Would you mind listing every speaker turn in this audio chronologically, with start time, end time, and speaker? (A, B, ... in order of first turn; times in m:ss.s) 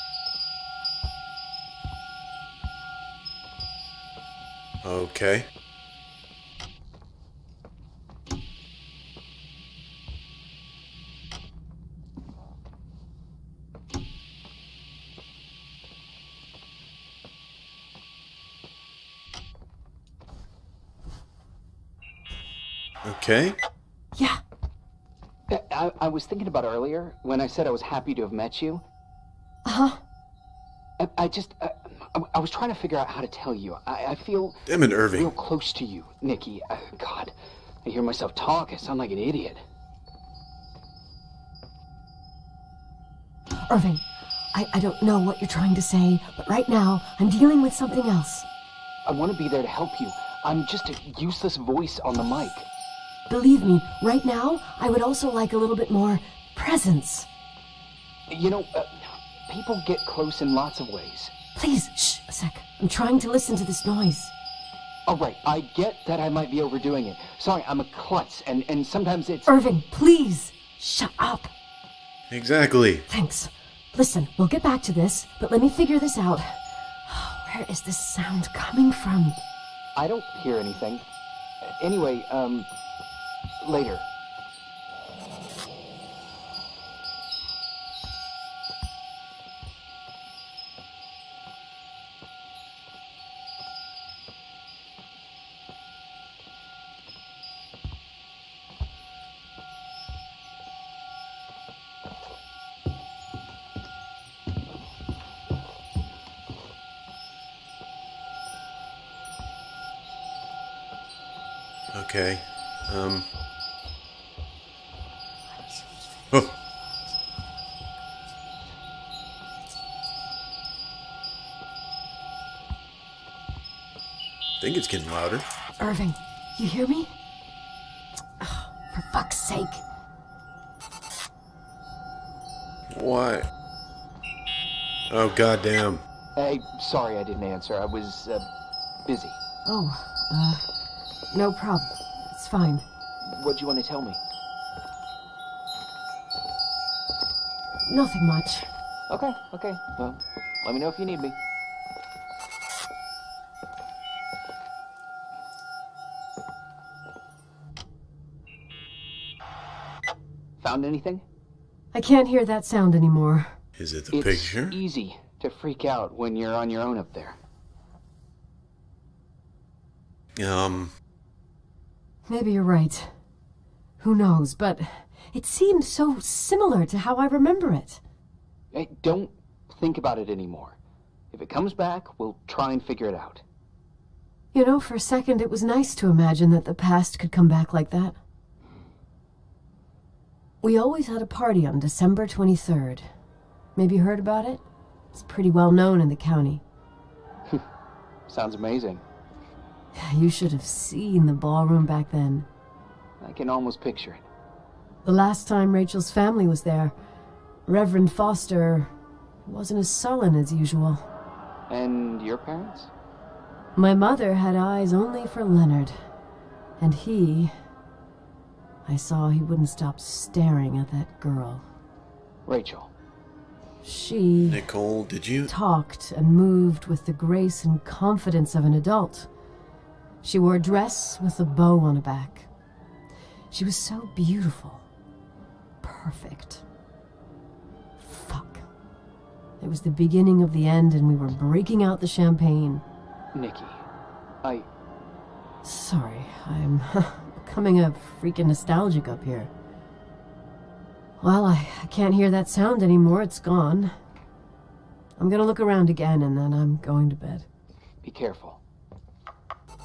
0:04.8-0:05.5 A
0:23.0-0:23.6 A
0:25.5-0:28.8 B
0:29.6-0:30.0 C
0:31.0-0:39.6 B
0:34.6-0:35.3 A
0:43.6-0:48.5 C
0:49.0-0:52.6 B
0:53.3-0:57.3 C
0:58.3-1:01.3 B
1:01.6-1:04.3 C
1:05.1-1:09.5 B
1:09.5-1:11.5 C
1:12.3-1:13.0 A
1:13.1-1:19.4 C
1:20.0-1:21.0 B
1:21.6-1:22.7 B
1:23.6-1:24.0 B
1:51.9-1:53.3 A
2:04.6-2:05.5 A
2:05.8-2:07.1 C
2:08.4-2:09.8 C
2:12.9-2:13.5 A
2:15.1-2:16.0 A
2:16.4-2:18.5 B
2:19.0-2:19.4 B
2:19.6-2:20.6 C
2:21.3-2:22.8 C
2:23.2-2:24.2 B
2:27.8-2:28.7 C
2:29.1-2:31.4 B
2:40.6-2:41.2 B
2:41.9-2:43.5 C
2:43.8-2:44.8 A
2:44.1-2:47.4 B
2:50.4-2:50.9 A
2:52.3-2:53.1 C
2:54.0-2:58.0 C
2:58.7-3:00.8 B
3:01.3-3:03.4 B
3:04.5-3:08.2 C
3:10.6-3:13.1 C
3:13.8-3:16.6 C
3:18.3-3:19.0 B
3:19.9-3:22.5 C
3:23.2-3:24.2 B
3:25.0-3:26.9 C
3:27.7-3:28.9 C
3:29.4-3:31.0 C
3:31.7-3:32.9 B
3:33.8-3:35.9 C
3:36.8-3:37.5 C
3:38.8-3:41.6 C
3:42.5-3:42.9 B
3:43.8-3:44.6 C
3:44.4-3:45.5 A
3:45.5-3:49.3 C
3:50.2-3:52.5 C
3:53.5-3:54.8 C
3:55.8-3:56.6 C
3:58.0-3:58.6 C
3:59.6-4:02.8 C
4:03.3-4:03.8 B
4:05.6-4:09.5 C
4:11.2-4:13.9 C
4:15.2-4:17.4 C
4:18.0-4:18.6 B